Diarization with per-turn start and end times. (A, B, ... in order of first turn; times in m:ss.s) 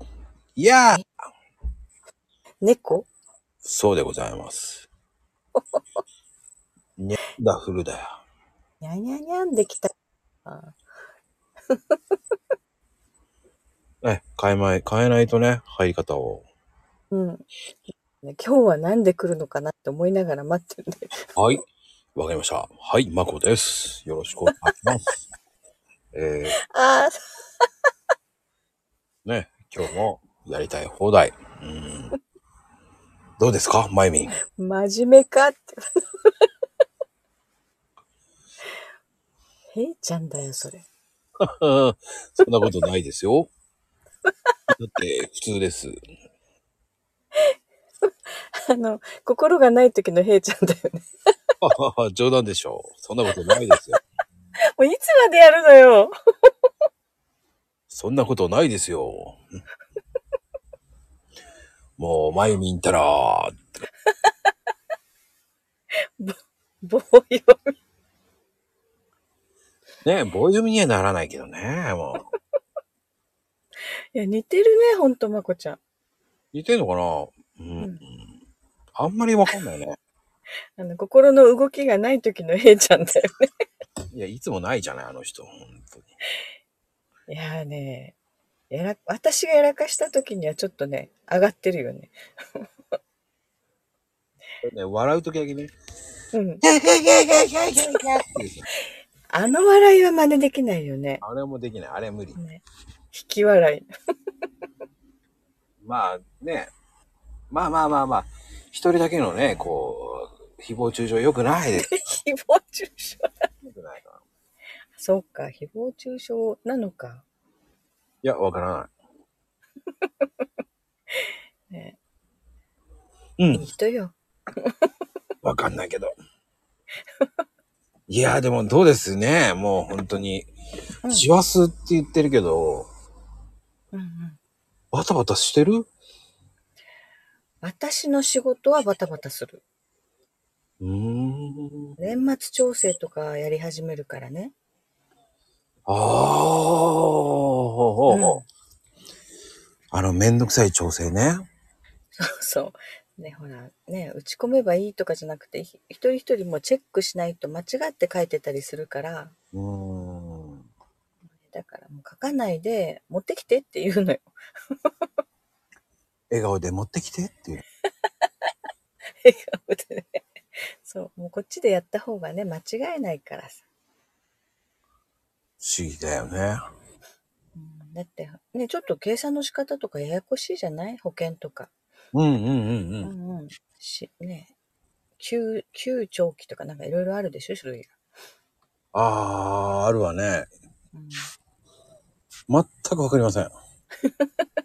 0:00.6-0:01.0 A
0:02.6-0:03.1 B
0:03.6-0:04.9 A
0:05.6-0:05.8 B
0:07.0-0:08.2 A
0:08.8-0:09.9 B
0:10.4-0:10.8 B
0:14.0-0:16.4 A
0:17.1-0:21.3 B
0:21.4-0:25.1 A
0:26.1-0:26.6 A
0:26.7-0:27.2 B
0:29.2-0:32.1 A
0:33.4-0:34.4 A
0:34.5-0:35.8 B
0:39.7-0:40.8 B
0:41.4-0:43.5 A
0:44.7-0:45.9 A
0:48.2-0:51.1 B
0:51.6-0:54.0 A
0:54.7-0:56.1 B
0:57.9-0:59.4 A
1:02.0-1:03.7 A
1:06.2-1:07.7 B
1:10.0-1:12.2 A
1:14.1-1:15.8 B
1:16.5-1:18.3 A
1:19.0-1:20.0 A
1:20.8-1:23.5 B
1:24.1-1:26.1 A
1:27.3-1:28.2 B
1:28.7-1:32.6 B
1:34.6-1:35.7 A
1:36.3-1:36.6 B
1:36.6-1:38.7 A
1:39.3-1:41.2 B
1:41.2-1:42.4 A
1:42.3-1:43.9 B
1:45.8-1:46.7 A
1:47.5-1:52.0 A
1:51.7-1:53.4 B
1:53.6-1:54.2 A
1:55.0-1:57.2 B
1:58.2-1:58.9 A
2:01.1-2:02.0 B
2:03.4-2:03.6 A
2:03.5-2:04.9 B
2:05.4-2:06.1 A
2:08.1-2:10.5 A
2:11.1-2:12.9 A
2:13.9-2:14.4 B
2:14.9-2:15.9 A
2:17.6-2:19.6 B
2:20.8-2:21.9 A
2:22.0-2:24.5 B
2:25.9-2:28.4 A
2:28.1-2:28.4 B
2:29.9-2:31.4 A
2:32.1-2:39.3 B
2:39.5-2:40.6 A
2:41.4-2:44.3 B
2:46.3-2:47.6 A
2:49.2-2:53.6 B
2:55.6-2:56.6 A
2:57.6-3:01.7 B
3:02.1-3:03.1 A
3:03.0-3:04.5 B
3:05.2-3:07.9 B
3:08.9-3:10.5 A
3:10.9-3:11.3 B
3:12.5-3:13.5 A
3:14.1-3:14.4 B